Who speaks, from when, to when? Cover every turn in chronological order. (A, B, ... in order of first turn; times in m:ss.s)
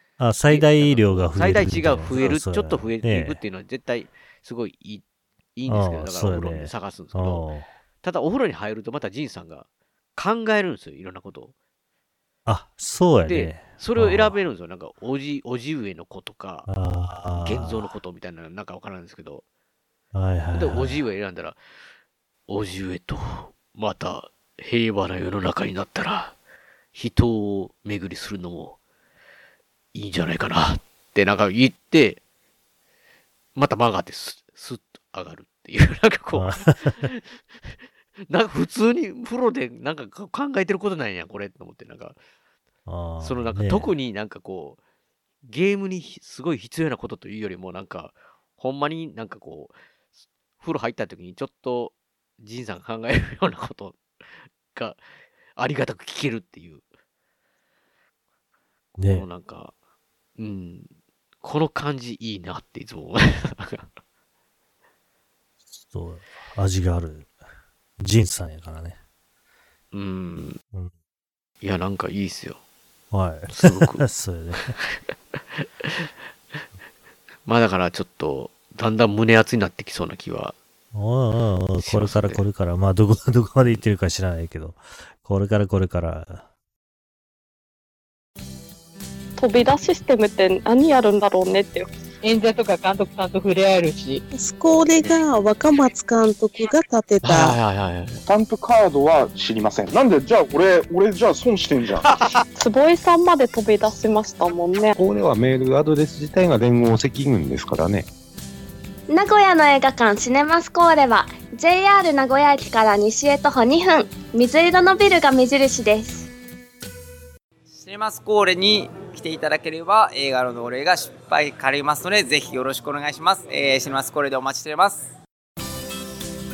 0:00.2-0:03.4 A
0:00.5-0:05.0 B
0:05.6-0:07.5 B
0:05.6-0:07.7 A
0:08.0-0:11.5 B
0:12.4-0:14.3 A
0:13.2-0:16.7 B
0:16.7-0:17.9 A
0:17.3-0:19.4 B
0:20.1-0:21.0 A
0:20.5-0:21.6 B
0:22.5-0:26.3 B
0:26.9-0:28.8 B
0:29.9-0:32.2 B
0:33.6-0:37.7 B
0:36.3-0:37.0 A
0:38.3-0:42.2 B
0:42.9-0:43.9 A
0:43.2-0:44.8 B
0:45.4-0:49.7 B
0:50.6-0:54.0 B
0:54.7-0:55.0 B
0:55.6-0:56.8 B
0:59.0-0:59.2 A
0:59.0-0:59.7 B
1:00.4-1:00.9 B
1:01.4-1:03.9 B
1:05.7-1:07.3 A
1:08.0-1:09.0 A
1:09.9-1:10.6 B
1:11.6-1:12.6 B
1:13.1-1:14.8 A
1:13.5-1:14.1 B
1:15.6-1:16.1 B
1:17.4-1:20.6 B
1:20.9-1:26.4 A
1:21.8-1:22.4 B
1:29.4-1:31.9 C
1:32.2-1:34.2 D
1:34.3-1:37.6 E
1:37.2-1:38.2 B
1:38.3-1:42.1 F
1:42.0-1:42.4 B
1:42.6-1:44.9 C
1:45.0-1:48.1 G
1:49.1-1:56.3 H
1:57.7-2:05.1 I